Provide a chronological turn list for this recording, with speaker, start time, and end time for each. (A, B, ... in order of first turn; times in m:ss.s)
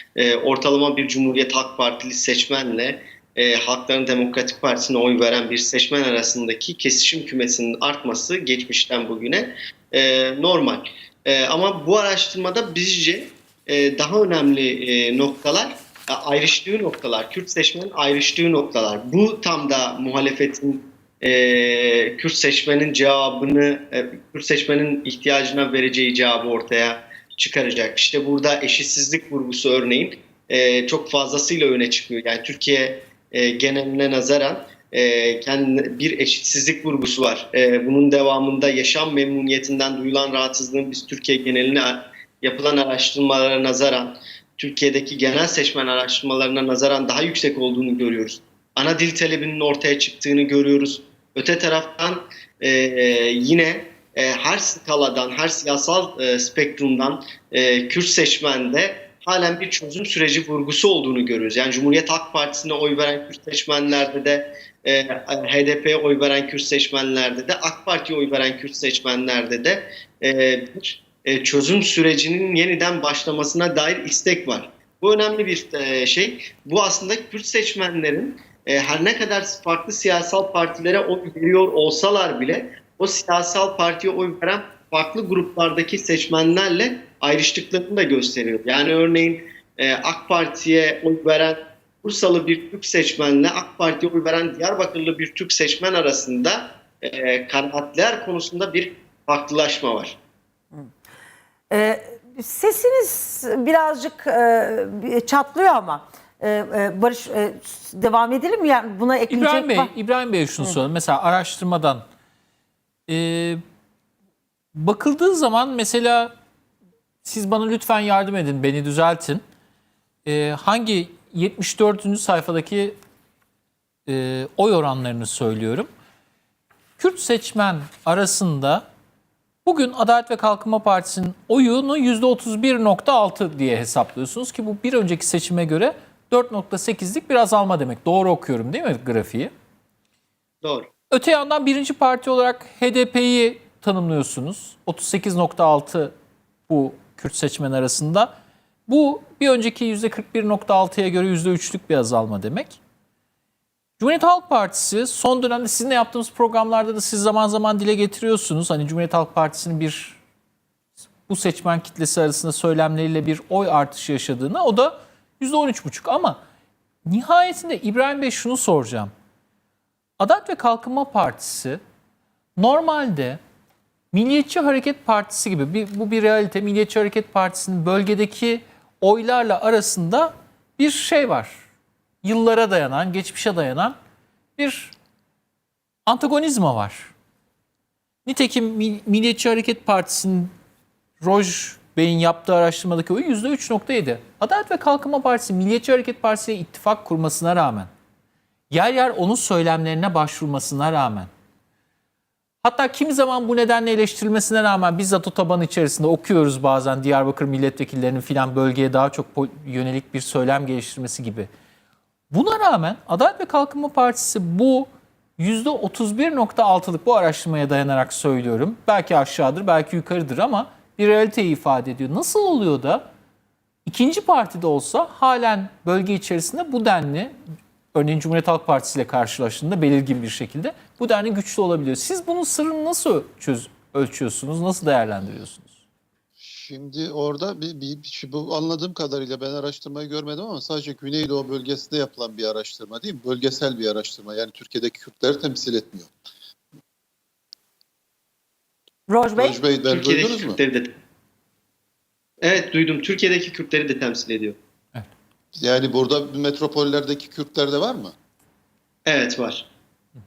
0:00.2-1:40.2 A
1:41.7-1:49.9 B
1:49.3-1:52.0 C
1:53.1-1:53.6 C
1:54.7-1:56.3 C
1:57.2-1:59.4 C
2:00.3-2:03.0 C
2:04.1-2:05.9 C
2:07.0-2:08.9 C
2:09.6-2:19.5 C
2:20.6-2:20.9 A
2:21.1-2:26.1 C
2:26.7-2:28.3 C
2:28.9-2:32.8 C
2:34.0-2:40.2 C
2:41.3-2:46.4 C
2:47.0-2:49.1 C
2:50.2-2:51.8 C
2:52.6-2:53.4 C
2:54.1-3:01.6 C
3:02.2-3:04.0 C
3:04.6-3:04.9 C
3:06.1-3:07.1 C
3:08.3-3:10.5 C
3:11.2-3:17.9 C
3:18.7-3:21.3 C
3:22.6-3:31.5 C
3:32.3-3:43.1 C
3:43.9-3:47.3 C
3:47.9-3:55.8 C
3:56.4-4:06.1 D
4:09.1-4:09.6 B
4:09.4-4:10.6 D
4:09.9-4:11.0 A
4:12.4-4:14.6 A
4:15.6-4:18.2 D
4:19.1-4:19.7 A